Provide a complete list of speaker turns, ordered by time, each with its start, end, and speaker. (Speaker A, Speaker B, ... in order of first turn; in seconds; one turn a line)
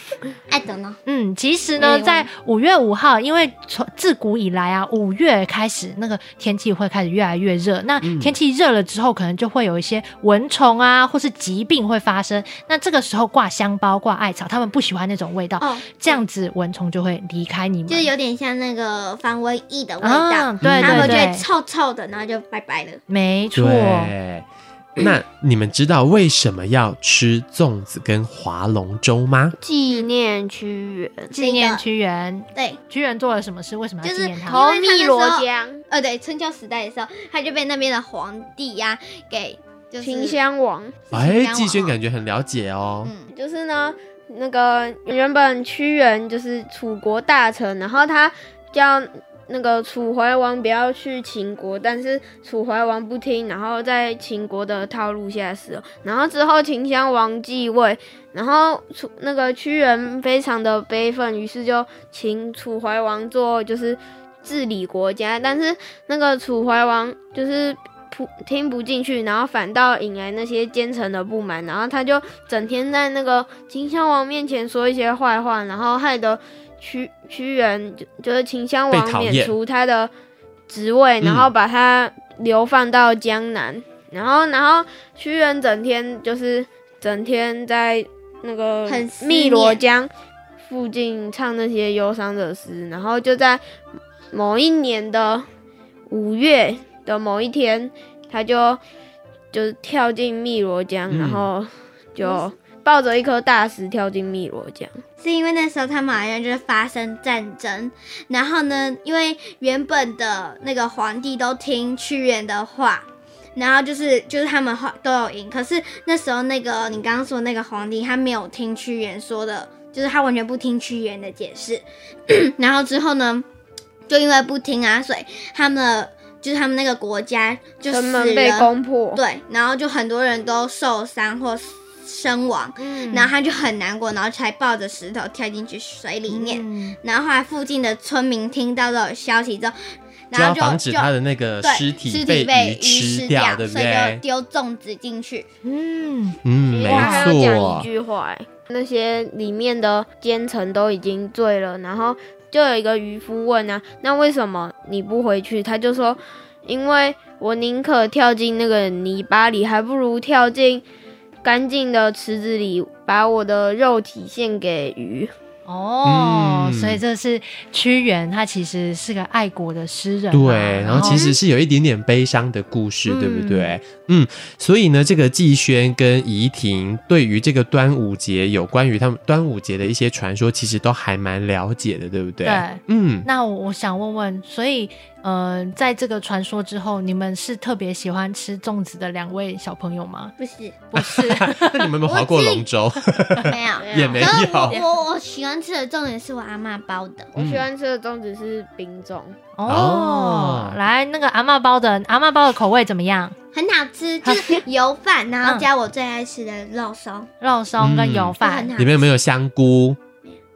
Speaker A: 0.5-1.0
Speaker B: 1.1-18.1
Speaker A: 1.8-2.3
Speaker C: 8.0-8.4
Speaker A: 15.6-16.2
Speaker A: 17.9-23.0
Speaker B: 20.0-21.5
Speaker C: 20.6-21.2
Speaker B: 23.1-24.1
Speaker C: 23.5-29.6
Speaker D: 29.6-31.3
Speaker B: 31.3-34.6
Speaker A: 31.4-31.8
Speaker A: 34.0-40.4
Speaker D: 34.5-35.8
Speaker D: 40.0-41.0
Speaker A: 41.1-42.0
Speaker C: 41.1-43.1
Speaker A: 43.0-43.3
Speaker D: 43.3-80.1
Speaker C: 78.9-79.6
Speaker D: 80.7-90.1
Speaker C: 81.2-81.5
Speaker A: 88.9-89.8
Speaker D: 90.7-93.6
Speaker D: 94.3-95.5
Speaker D: 96.1-98.8
Speaker D: 99.5-105.0
Speaker C: 101.1-101.5
Speaker A: 105.2-123.5
Speaker A: 124.1-139.8
Speaker D: 127.9-129.2
Speaker B: 132.8-133.3
Speaker B: 136.3-137.0
Speaker A: 140.3-145.5
Speaker C: 140.3-144.2
Speaker B: 145.7-146.4
Speaker C: 146.4-147.9
Speaker D: 146.7-160.8
Speaker B: 146.9-147.4
Speaker D: 161.4-165.3
Speaker B: 165.7-171.2
Speaker C: 166.0-167.0
Speaker C: 170.3-183.3
Speaker D: 170.9-171.4
Speaker B: 173.1-173.8
Speaker B: 182.4-190.3
Speaker A: 190.4-190.8
Speaker B: 190.9-191.9
Speaker C: 190.9-194.8
Speaker A: 192.1-192.7
Speaker A: 193.5-197.3
Speaker D: 193.8-194.8
Speaker D: 197.3-199.3
Speaker C: 197.4-197.7
Speaker B: 199.6-203.3
Speaker C: 199.7-200.8
Speaker A: 203.5-207.3
Speaker B: 204.2-204.6
Speaker B: 207.4-208.7
Speaker C: 207.8-210.0
Speaker A: 208.4-209.1